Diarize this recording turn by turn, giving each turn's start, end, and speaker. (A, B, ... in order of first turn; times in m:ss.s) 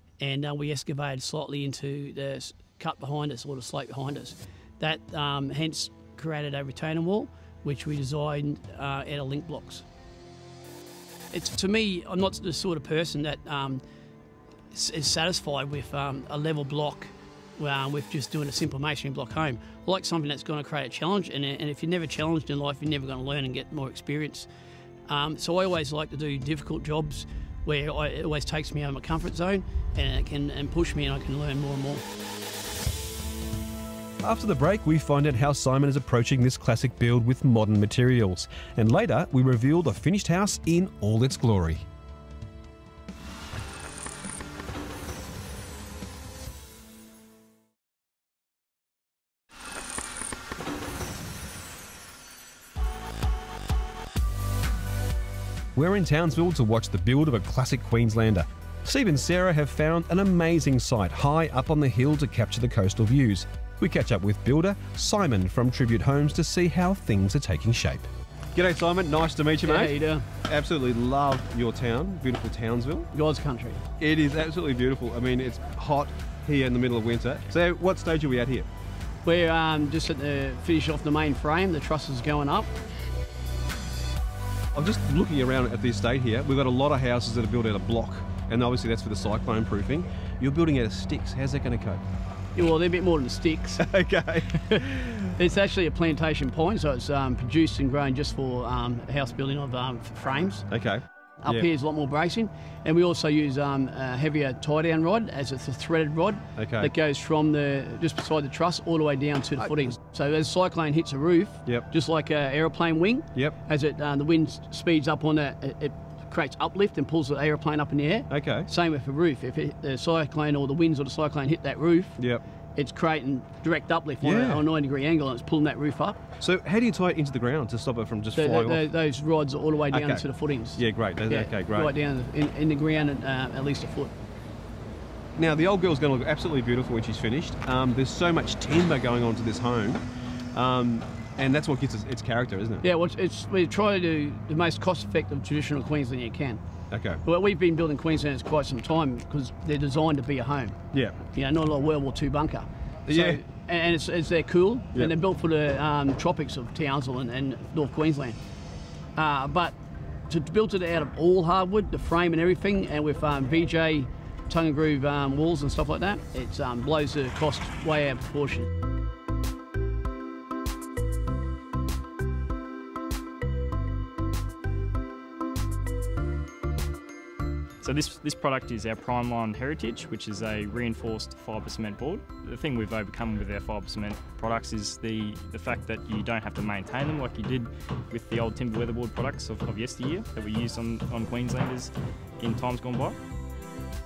0:00.2-0:09.8 A
0:11.3-0:13.8 A
0:14.7-0:24.5 A
0:25.1-0:32.0 A
0:34.2-0:41.8 B
0:55.7-1:13.1 B
1:09.6-1:10.2 A
1:13.1-1:13.8 A
1:14.0-1:18.7 B
1:19.2-1:22.7 A
1:24.7-1:32.0 B
1:32.5-1:33.8 A
1:33.8-1:35.2 B
1:34.6-1:40.7 A
1:40.7-1:41.7 B
1:41.4-2:02.2 A
1:46.6-1:46.9 B
1:49.6-1:49.9 B
1:58.3-1:58.7 B
2:02.2-2:02.4 B
2:02.7-2:06.2 A
2:04.2-2:04.7 B
2:06.4-2:08.9 B
2:08.3-2:14.1 A
2:09.9-2:11.9 B
2:15.4-2:20.0 B
2:20.5-2:22.9 B
2:22.8-2:26.6 A
2:26.9-2:27.2 B
2:27.2-2:30.8 A
2:31.3-2:38.4 A
2:33.1-2:33.4 B
2:39.2-2:39.7 A
2:40.3-2:48.7 A
2:57.8-3:13.2 C